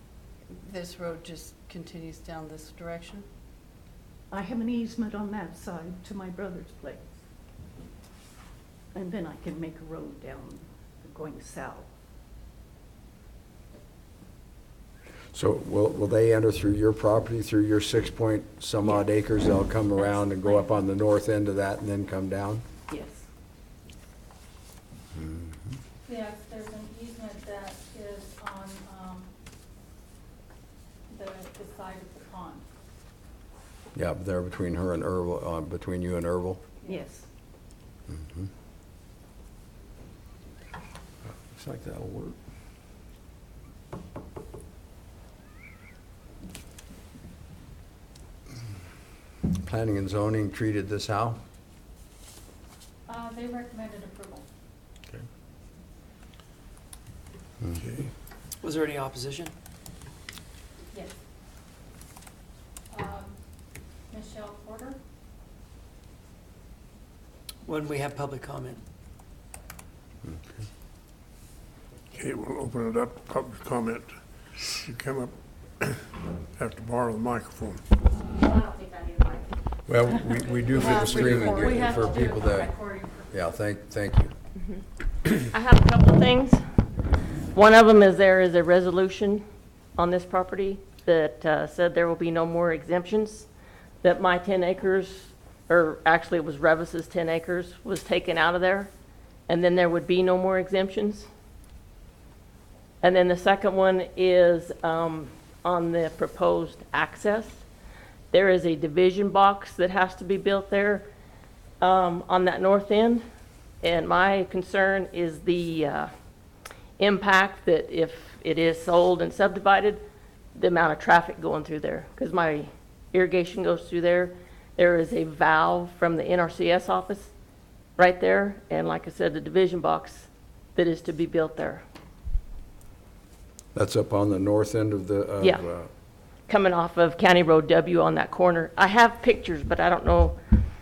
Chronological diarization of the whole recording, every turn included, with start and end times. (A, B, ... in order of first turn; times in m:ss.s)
0:00.5-0:03.2 A
0:04.3-0:07.0 B
0:08.9-0:11.9 B
0:15.3-0:22.6 C
0:22.9-0:23.3 B
0:25.2-0:25.5 C
0:26.0-0:29.3 D
0:31.1-0:32.6 D
0:33.9-0:36.6 C
0:36.8-0:37.3 B
0:38.1-0:38.5 C
0:41.3-0:42.4 C
0:49.5-0:51.4 C
0:53.1-0:54.4 D
0:57.7-0:58.1 E
0:58.6-0:59.5 F
1:00.9-1:01.2 D
1:02.9-1:03.4 D
1:04.1-1:05.0 D
1:07.6-1:08.8 F
1:12.1-1:14.1 E
1:14.7-1:17.8 E
1:18.4-1:19.4 G
1:19.9-1:22.8 C
1:20.8-1:22.1 A
1:20.8-1:23.3 D
1:23.3-1:24.3 C
1:25.3-1:26.6 G
1:27.5-1:29.4 G
1:30.0-1:33.5 G
1:34.0-1:38.9 G
1:39.5-1:41.3 G
1:43.0-1:47.6 G
1:48.3-1:51.0 G
1:51.8-1:53.2 G
1:53.8-1:56.1 G
1:57.0-2:00.0 G
2:00.5-2:07.3 G
2:08.0-2:11.8 G
2:13.7-2:15.9 C
2:15.4-2:15.6 G
2:16.5-2:20.4 G